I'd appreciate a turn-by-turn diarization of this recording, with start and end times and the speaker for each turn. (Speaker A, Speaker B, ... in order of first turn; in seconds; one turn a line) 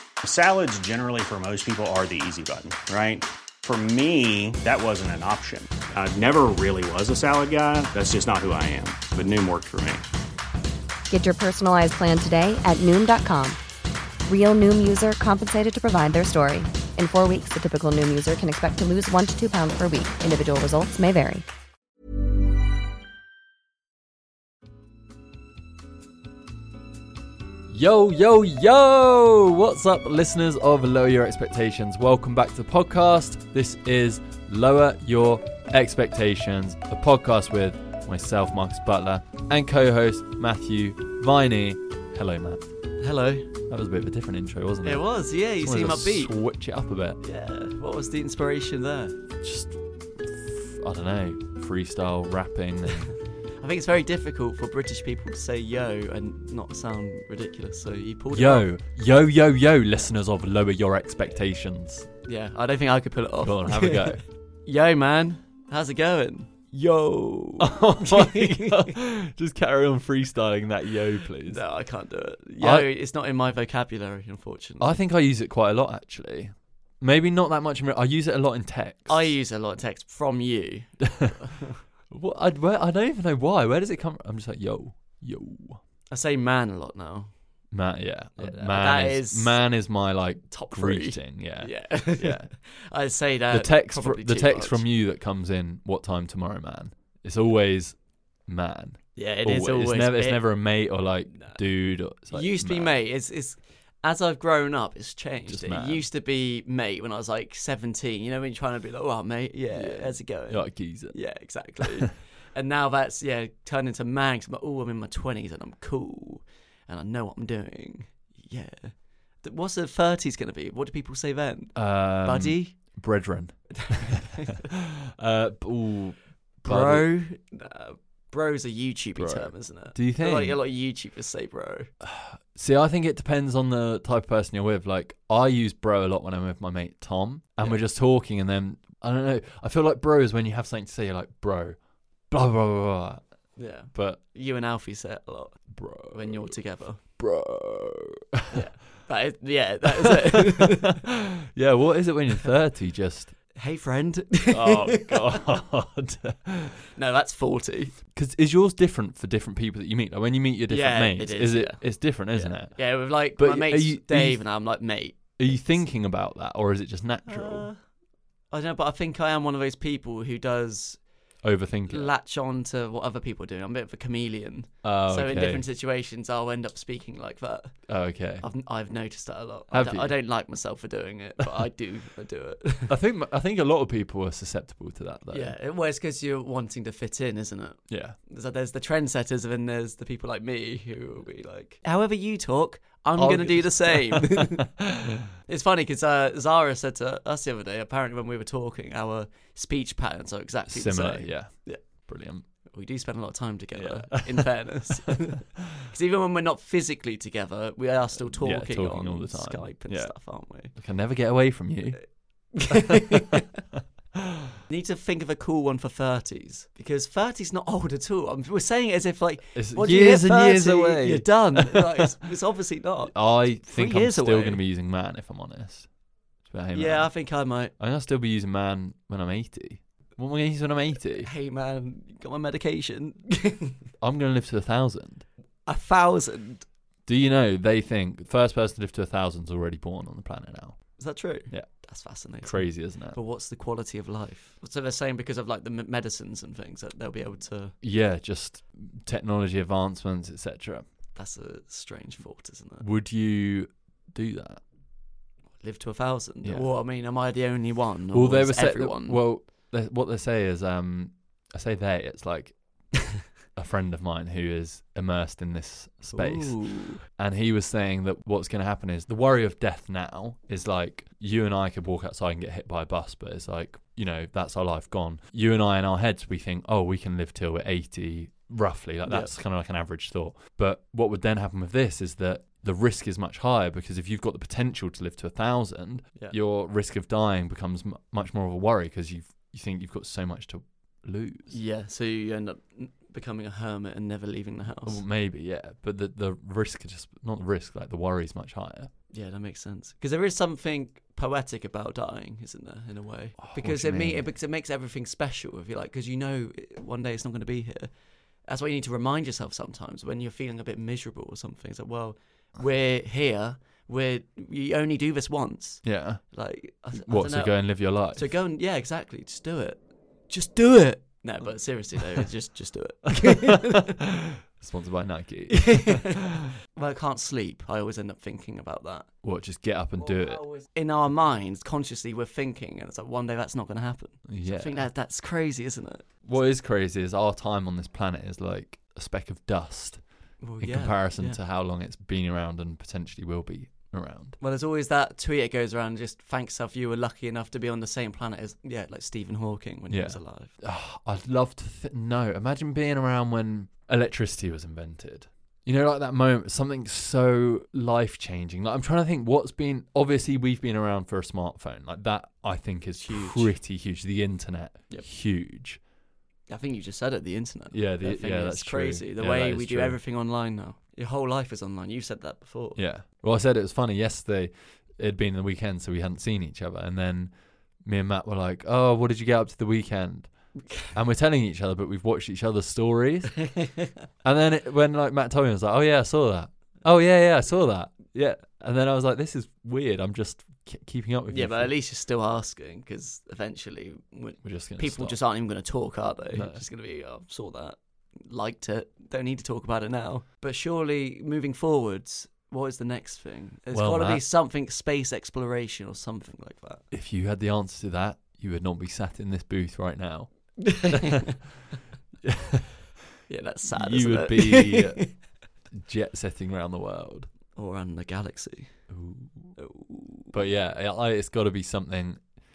Speaker A: 0.2-10.0
Speaker B: 11.1-13.6
Speaker B: 14.2-21.4
Speaker C: 27.7-42.7
Speaker D: 43.0-43.5
Speaker C: 43.7-47.2
Speaker D: 44.8-46.3
Speaker D: 47.2-49.2
Speaker C: 49.4-53.1
Speaker D: 53.6-58.7
Speaker C: 58.3-62.1
Speaker D: 62.2-68.9
Speaker C: 63.4-64.2
Speaker C: 67.6-71.6
Speaker D: 71.5-75.0
Speaker C: 72.6-72.9
Speaker C: 74.8-79.3
Speaker D: 79.1-81.8
Speaker C: 82.1-85.8
Speaker D: 86.1-87.3
Speaker C: 87.7-92.5
Speaker D: 88.4-89.6
Speaker D: 90.5-94.8
Speaker C: 93.5-102.9
Speaker D: 99.2-100.5
Speaker D: 101.3-101.6
Speaker D: 102.3-122.8
Speaker C: 105.5-106.0
Speaker C: 109.7-111.2
Speaker C: 111.8-112.1
Speaker C: 121.7-127.1
Speaker D: 123.7-124.6
Speaker D: 126.6-131.9
Speaker C: 129.2-130.6
Speaker C: 132.0-141.8
Speaker C: 142.3-143.2
Speaker D: 143.6-147.0
Speaker C: 143.9-144.2
Speaker C: 145.7-146.5
Speaker C: 147.2-148.7
Speaker D: 148.5-151.0
Speaker C: 150.0-153.3
Speaker D: 153.5-155.4
Speaker C: 154.5-156.8
Speaker D: 156.9-158.0
Speaker C: 158.1-164.4
Speaker D: 160.7-165.9
Speaker C: 165.4-167.7
Speaker D: 167.3-167.8
Speaker D: 168.5-171.0
Speaker C: 171.4-172.1
Speaker D: 171.9-182.9
Speaker C: 174.8-175.6
Speaker C: 177.9-178.4
Speaker C: 179.7-180.2
Speaker C: 182.9-185.5
Speaker D: 185.3-194.7
Speaker C: 187.9-188.2
Speaker C: 193.2-195.1
Speaker D: 195.3-201.8
Speaker C: 200.7-202.4
Speaker D: 202.7-210.7
Speaker C: 203.8-204.9
Speaker C: 208.2-213.2
Speaker D: 212.5-213.4
Speaker D: 214.7-224.6
Speaker C: 219.5-222.2
Speaker C: 223.1-225.9
Speaker C: 226.4-227.1
Speaker D: 226.7-227.7
Speaker C: 227.8-231.3
Speaker D: 231.2-233.8
Speaker C: 234.0-235.2
Speaker D: 235.7-236.6
Speaker C: 237.1-241.0
Speaker D: 241.0-247.8
Speaker C: 242.4-243.2
Speaker C: 247.8-250.8
Speaker D: 251.1-252.8
Speaker C: 252.8-254.6
Speaker D: 255.6-259.2
Speaker C: 256.4-256.7
Speaker C: 258.1-262.6
Speaker C: 263.6-291.5
Speaker D: 266.1-267.0
Speaker D: 279.1-279.3
Speaker D: 291.5-295.0
Speaker C: 294.8-298.9
Speaker D: 299.1-307.9
Speaker C: 303.4-304.2
Speaker D: 308.5-323.9
Speaker C: 315.8-316.2
Speaker C: 316.9-318.3
Speaker C: 323.2-326.2
Speaker D: 325.5-329.1
Speaker C: 329.2-330.4
Speaker D: 330.0-336.1
Speaker C: 334.3-334.9
Speaker C: 336.2-340.0
Speaker D: 340.4-341.4
Speaker C: 340.6-344.4
Speaker D: 344.4-350.5
Speaker C: 349.9-365.8
Speaker D: 363.0-363.5
Speaker D: 366.5-372.8
Speaker C: 367.7-370.0
Speaker C: 372.8-383.5
Speaker D: 383.5-383.8
Speaker C: 384.2-391.7
Speaker D: 391.3-406.8
Speaker C: 394.4-395.2
Speaker C: 396.3-396.6
Speaker C: 403.7-404.2
Speaker C: 406.9-411.1
Speaker D: 410.7-411.2
Speaker C: 412.2-412.7
Speaker D: 413.3-415.1
Speaker C: 413.7-415.2
Speaker C: 415.7-417.3
Speaker D: 417.5-418.9
Speaker C: 418.9-419.6
Speaker D: 419.6-420.4
Speaker C: 420.3-422.2